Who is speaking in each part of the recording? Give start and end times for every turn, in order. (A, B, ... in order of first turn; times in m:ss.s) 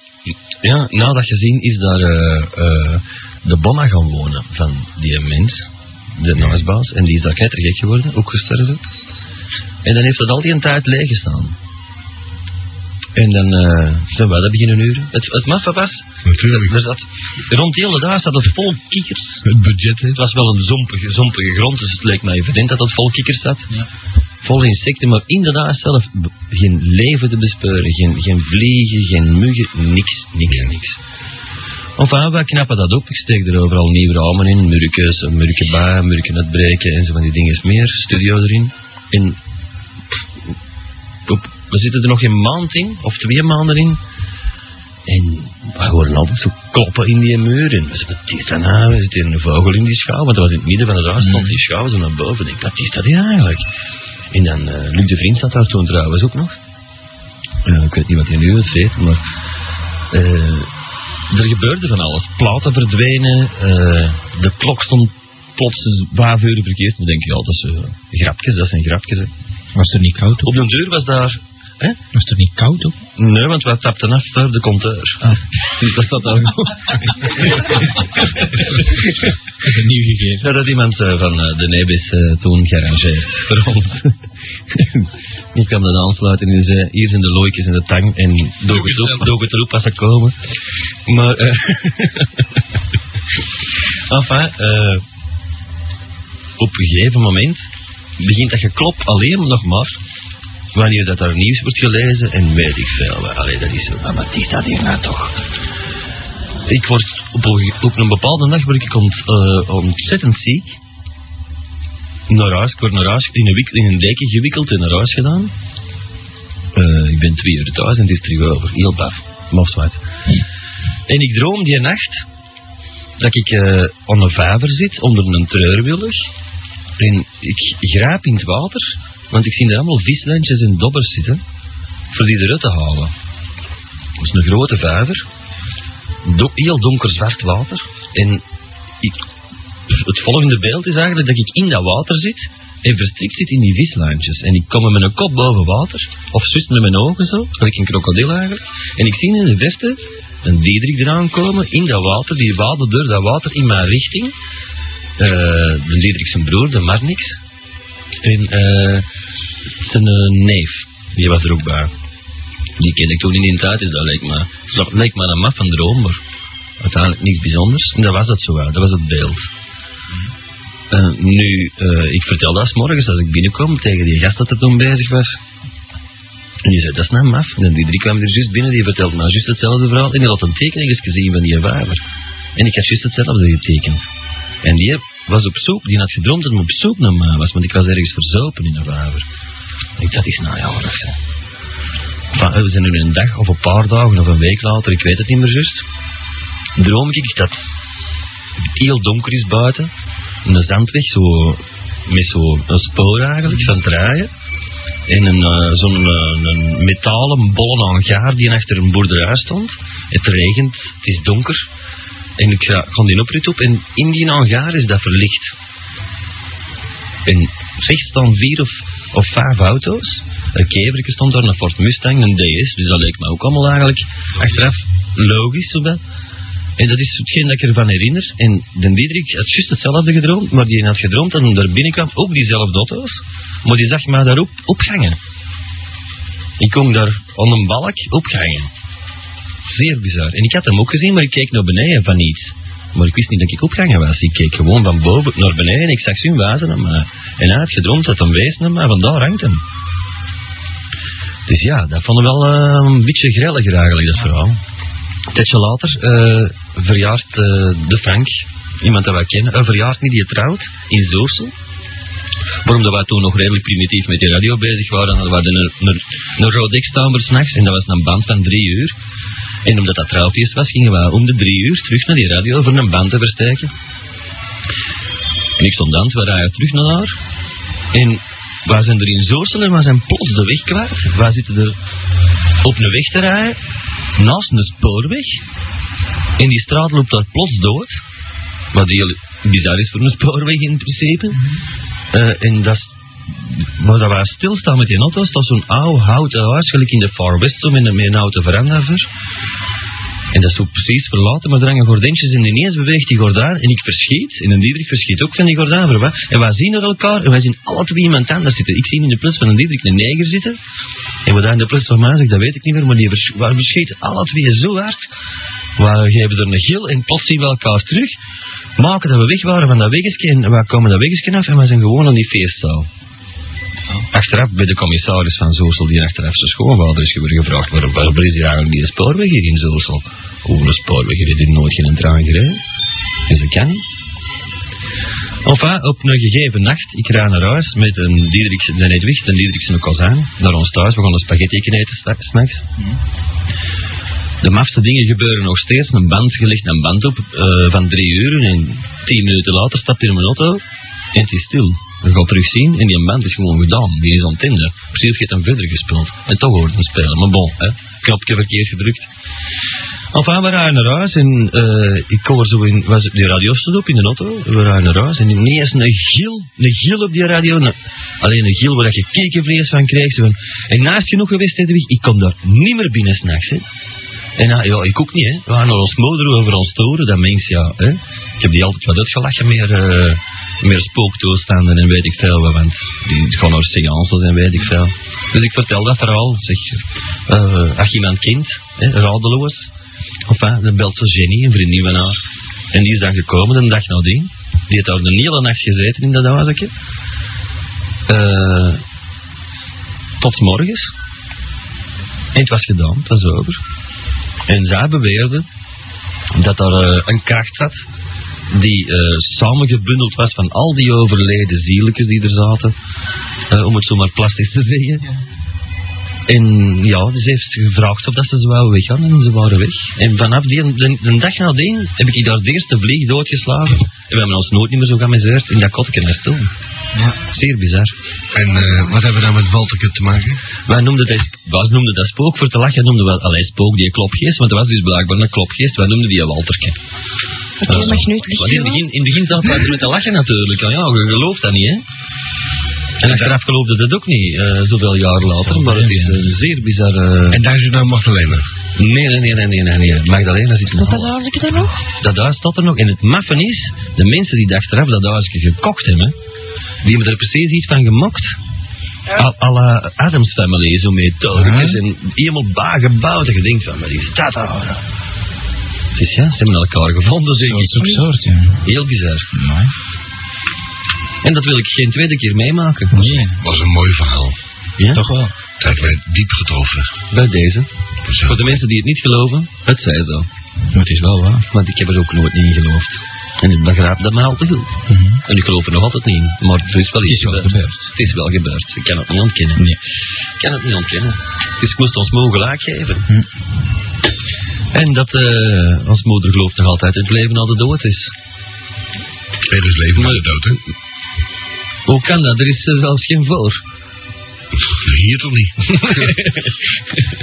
0:00.6-0:08.8 A
0:09.8-0:11.6 A
0:13.2-0:19.4 A
0:16.2-0:16.8 B
0:19.4-0:20.2 B
0:20.1-0:23.7 A
0:24.4-0:31.0 A
0:32.0-0:39.4 A
0:41.3-0:44.0 A
0:45.0-0:53.6 A
0:51.2-0:51.6 C
0:54.3-0:56.6 A
0:57.6-0:59.2 A
1:00.1-1:00.7 A
1:01.3-1:09.3 A
1:09.7-1:10.6 C
1:10.4-1:12.0 A
1:12.1-1:12.9 C
1:13.2-1:17.8 A
1:19.6-1:20.5 C
1:20.4-1:24.1 A
1:24.7-1:30.3 A
1:28.7-1:29.3 C
1:31.1-1:32.3 A
1:34.1-1:35.0 A
1:36.6-1:37.6 A
1:38.2-1:40.0 A
1:40.7-1:45.4 A
1:46.7-1:50.8 A
1:52.3-1:55.5 A
1:56.7-2:00.0 A
2:01.1-2:02.2 A
2:03.2-2:06.3 A
2:07.0-2:11.4 A
2:12.1-2:13.1 A
2:14.2-2:15.2 A
2:16.2-2:18.4 A
2:19.9-2:34.3 A
2:35.2-2:37.4 A
2:38.2-2:39.0 A
2:39.8-2:41.9 A
2:42.8-2:46.2 A
2:46.8-2:49.5 A
2:50.9-2:55.4 A
2:56.6-3:02.0 A
3:02.6-3:04.0 A
3:04.6-3:09.2 A
3:10.0-3:11.2 A
3:12.3-3:15.8 A
3:16.8-3:17.7 A
3:18.8-3:19.9 A
3:20.4-3:24.3 A
3:25.1-3:31.7 A
3:32.4-3:35.5 A
3:37.2-3:46.0 A
3:46.8-3:55.2 A
3:56.6-3:58.7 A
3:59.7-4:09.6 A
4:11.5-4:14.6 A
4:15.3-4:21.5 A
4:22.6-4:28.9 A
4:29.6-4:33.7 A
4:35.6-4:37.2 A
4:37.9-4:41.8 A
4:42.6-4:43.6 A
4:44.2-4:45.4 A
4:46.4-4:47.9 A
4:48.7-4:51.4 A
4:52.1-4:59.1 A
5:00.3-5:10.6 A
5:11.2-5:15.1 A
5:15.8-5:18.1 A
5:18.8-5:22.9 A
5:24.1-5:32.6 A
5:33.3-5:33.8 A
5:35.4-5:42.7 A
5:44.4-5:50.6 A
5:51.1-5:59.1 A
6:00.1-6:13.6 A
6:14.4-6:29.7 A
6:30.3-6:32.2 A
6:32.7-6:36.7 A
6:38.1-6:38.8 A
6:40.2-6:40.9 A
6:42.3-6:43.6 A
6:44.5-6:45.5 A
6:46.3-6:47.8 A
6:48.5-6:52.7 A
6:53.5-6:55.0 A
6:56.3-7:06.5 A
7:07.3-7:07.9 A
7:08.3-7:10.4 B
7:10.7-7:16.8 A
7:17.6-7:18.8 D
7:17.7-7:21.8 A
7:23.0-7:27.4 A
7:23.0-7:23.3 B
7:25.4-7:26.2 C
7:27.3-7:28.4 B
7:28.8-7:31.1 A
7:30.7-7:31.8 D
7:32.0-7:36.1 A
7:36.8-7:38.4 A
7:39.1-7:44.8 A
7:41.3-7:41.8 C
7:45.9-7:48.0 A
7:47.4-7:48.6 C
7:48.6-7:49.3 A
7:49.3-7:49.7 C
7:51.2-7:53.2 A
7:52.9-7:53.4 C
7:53.4-7:54.4 B
7:54.8-7:55.1 A
7:54.9-7:55.3 C
7:55.6-7:56.9 B
7:57.1-7:57.7 A
7:58.0-7:58.6 B
7:58.2-8:00.3 A
8:00.7-8:01.5 C
8:01.5-8:09.6 A
8:04.9-8:05.2 C
8:07.0-8:07.9 C
8:10.4-8:13.1 A
8:14.7-8:18.1 A
8:19.5-8:20.6 B
8:19.9-8:20.2 A
8:21.9-8:23.6 A
8:24.7-8:26.2 B